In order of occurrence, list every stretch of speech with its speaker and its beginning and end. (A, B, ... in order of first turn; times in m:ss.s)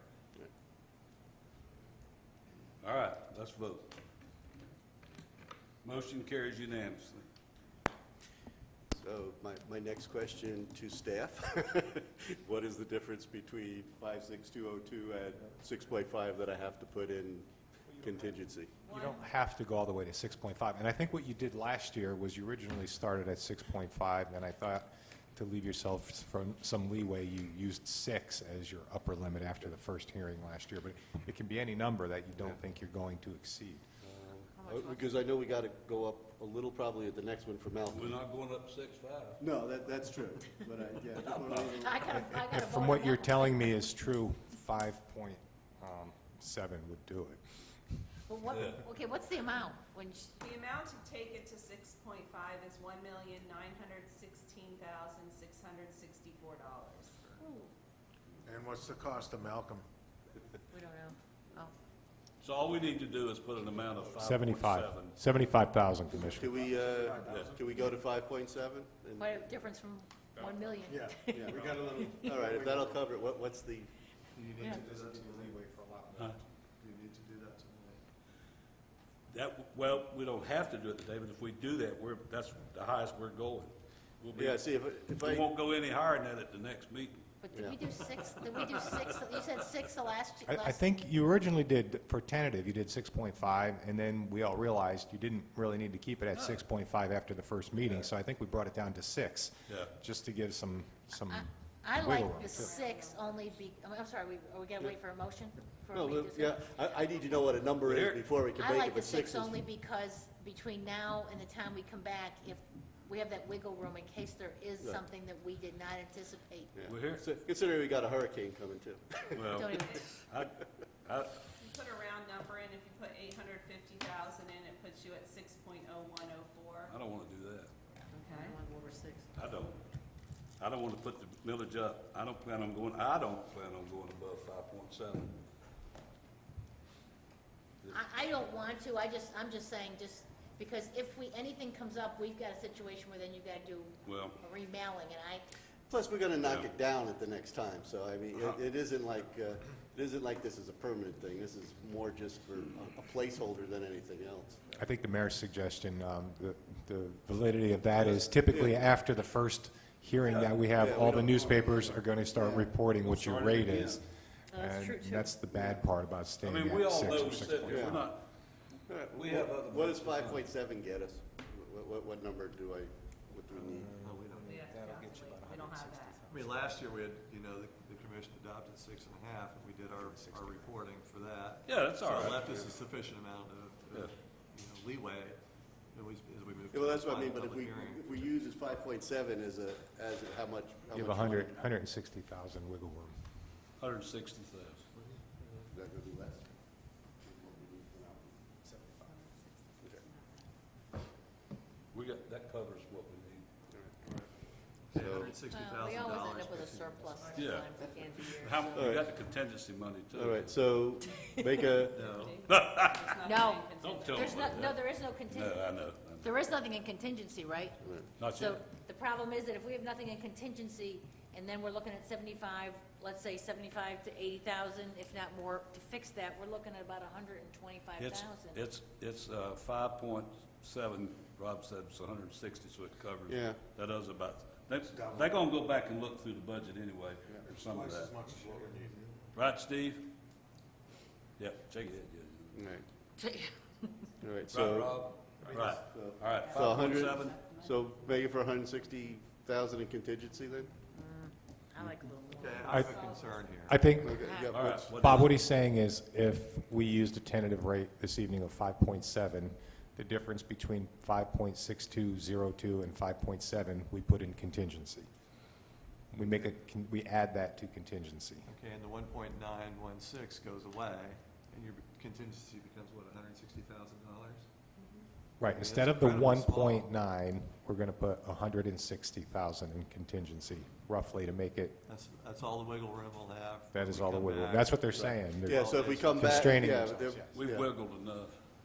0:02.8-0:03.9 A
0:05.8-0:07.2 A
0:08.9-0:18.7 B
0:18.8-0:19.3 C
0:18.9-0:33.8 D
0:34.0-0:38.2 B
0:34.5-0:35.2 E
0:37.9-0:39.4 A
0:39.4-0:42.4 B
0:41.3-0:41.7 A
0:41.8-0:43.8 E
0:42.2-0:47.4 D
0:48.3-0:50.3 E
0:48.5-0:48.8 A
0:50.4-0:57.3 C
0:57.4-0:57.7 E
0:58.4-0:59.8 F
1:00.7-1:01.7 E
1:02.4-1:05.2 A
1:04.2-1:06.6 D
1:06.1-1:09.4 B
1:07.0-1:07.6 F
1:07.3-1:07.5 A
1:09.2-1:12.3 E
1:10.4-1:10.6 D
1:10.9-1:12.8 F
1:11.3-1:13.9 B
1:14.3-1:15.6 G
1:14.6-1:16.4 D
1:16.8-1:18.0 G
1:19.3-1:27.2 A
1:24.3-1:25.5 B
1:27.4-1:30.8 E
1:27.5-1:27.8 B
1:30.5-1:42.7 D
1:36.3-1:36.6 A
1:41.3-1:46.6 E
1:42.3-1:43.6 C
1:45.9-1:49.6 B
1:47.8-1:48.2 A
1:48.6-1:56.7 E
1:56.7-1:59.7 B
1:56.8-1:57.2 A
1:59.4-2:01.5 A
1:59.5-2:00.2 E
1:59.7-2:00.1 C
2:01.6-2:06.9 C
2:06.9-2:07.7 A
2:08.1-2:09.3 E
2:08.2-2:08.6 C
2:09.3-2:09.8 A
2:10.6-2:15.3 A
2:17.9-2:25.4 E
2:24.0-2:24.4 A
2:25.9-2:34.8 B
2:26.4-2:26.7 A
2:34.8-2:48.0 D
2:38.0-2:38.9 B
2:40.3-2:42.8 B
2:43.0-2:44.0 A
2:44.5-2:45.3 E
2:45.5-2:45.8 B
2:46.4-2:48.3 A
2:47.6-2:48.1 B
2:48.9-2:54.0 B
2:49.1-2:50.5 A
2:53.5-2:56.7 D
2:54.0-2:54.6 G
2:54.4-2:56.3 C
2:54.8-2:55.4 E
2:56.3-3:08.4 G
3:00.0-3:00.7 D
3:01.6-3:02.5 A
3:02.2-3:02.7 B
3:06.7-3:11.6 B
3:10.9-3:13.1 D
3:13.8-3:14.9 A
3:15.7-3:18.4 B
3:18.6-3:19.1 D
3:21.9-3:23.4 A
3:23.7-3:24.1 B
3:24.9-3:25.4 B
3:24.9-3:27.3 G
3:25.5-3:29.0 E
3:27.3-3:30.6 A
3:28.7-3:29.1 B
3:30.1-3:32.3 B
3:31.9-3:32.4 G
3:32.2-3:34.6 C
3:32.5-3:33.2 A
3:33.2-3:48.6 E
3:33.8-3:36.4 A
3:37.8-3:38.1 B
3:38.2-3:38.6 A
3:48.0-3:58.3 A
3:53.3-3:53.6 B
3:54.9-3:55.3 F
3:57.6-3:58.9 F
3:59.3-4:00.1 A
4:01.4-4:02.6 A
4:02.5-4:02.8 B
4:03.2-4:03.5 E
4:04.2-4:05.1 B
4:04.5-4:07.4 A
4:05.4-4:05.7 F
4:05.7-4:10.8 B
4:06.4-4:07.9 C
4:10.9-4:12.7 E
4:12.3-4:13.9 G
4:12.6-4:13.4 C
4:12.6-4:13.0 D
4:13.6-4:25.1 D
4:14.0-4:15.0 B
4:14.2-4:14.6 E
4:14.5-4:15.4 A
4:26.1-4:28.5 D
4:28.4-4:34.5 G
4:34.8-4:35.0 C
4:35.4-4:41.8 D
4:35.4-4:36.9 G
4:41.8-4:46.9 G
4:43.7-4:47.4 D
4:44.9-4:47.7 B
4:47.3-4:48.4 A